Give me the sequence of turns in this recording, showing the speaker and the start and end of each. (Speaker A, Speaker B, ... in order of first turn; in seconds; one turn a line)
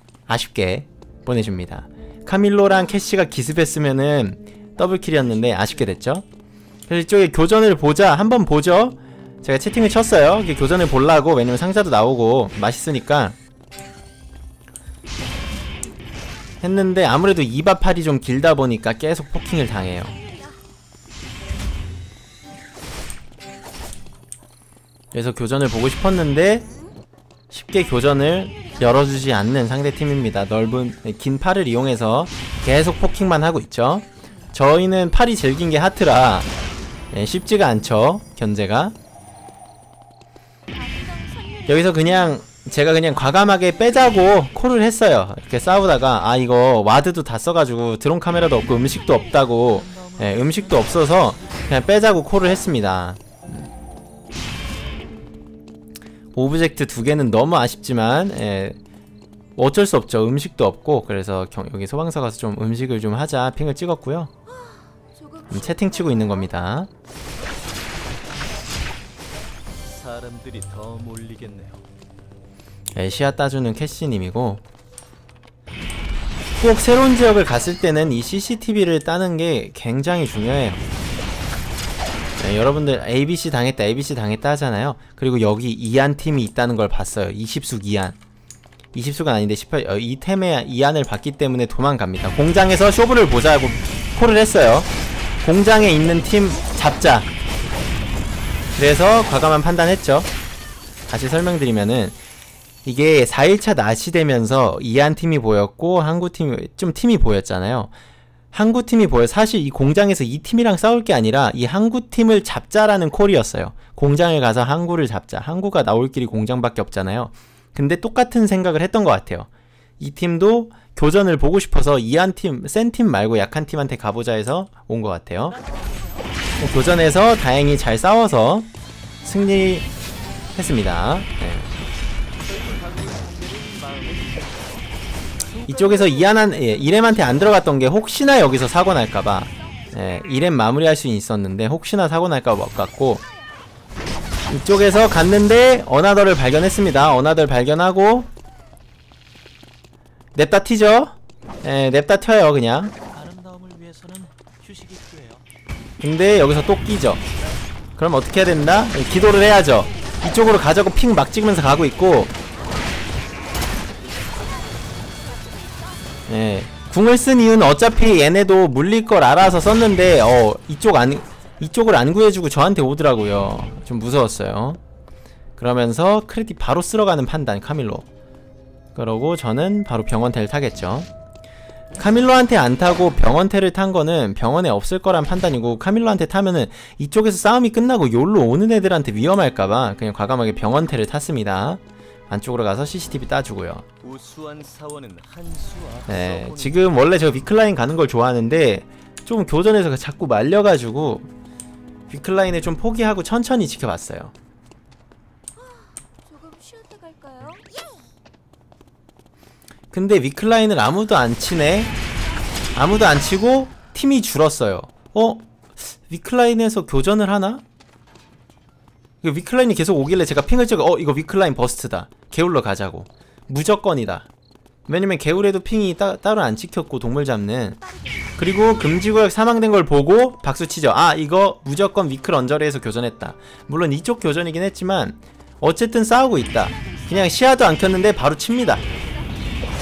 Speaker A: 0.3-6.2
Speaker A: 6.9-13.3
Speaker A: 16.6-20.1
Speaker B: 19.8-20.6
Speaker A: 25.1-26.7
Speaker A: 27.5-36.5
Speaker B: 28.2-29.2
Speaker A: 37.1-39.0
Speaker B: 40.7-44.3
Speaker A: 41.7-53.7
Speaker C: 48.8-52.2
Speaker A: 56.3-58.8
Speaker A: 59.5-64.3
Speaker B: 64.5-66.7
Speaker A: 65.5-66.9
Speaker C: 69.8-71.9
Speaker A: 72.9-74.6
Speaker A: 76.6-80.8
Speaker A: 82.4-88.2
Speaker A: 88.9-97.3
Speaker A: 98.8-100.3
Speaker A: 101.1-102.2
Speaker A: 102.8-107.9
Speaker A: 108.5-125.6
Speaker C: 125.5-126.2
Speaker A: 126.6-128.7
Speaker A: 129.2-129.9
Speaker A: 130.6-131.7
Speaker C: 132.4-137.5
Speaker A: 135.7-143.2
Speaker B: 139.5-139.9
Speaker A: 144.5-148.3
Speaker A: 150.3-152.9
Speaker C: 153.1-155.4
Speaker A: 156.0-157.2
Speaker A: 158.0-162.3
Speaker B: 162.5-166.2
Speaker A: 166.3-174.8
Speaker A: 175.6-178.1
Speaker A: 178.9-181.1
Speaker A: 182.0-193.8
Speaker C: 194.0-197.1
Speaker A: 196.1-201.3
Speaker A: 202.1-204.3
Speaker B: 205.6-207.7
Speaker A: 209.9-211.9
Speaker A: 212.7-217.6
Speaker A: 219.2-224.3
Speaker A: 224.9-227.8
Speaker B: 227.8-228.8
Speaker A: 228.4-238.8
Speaker B: 236.7-239.4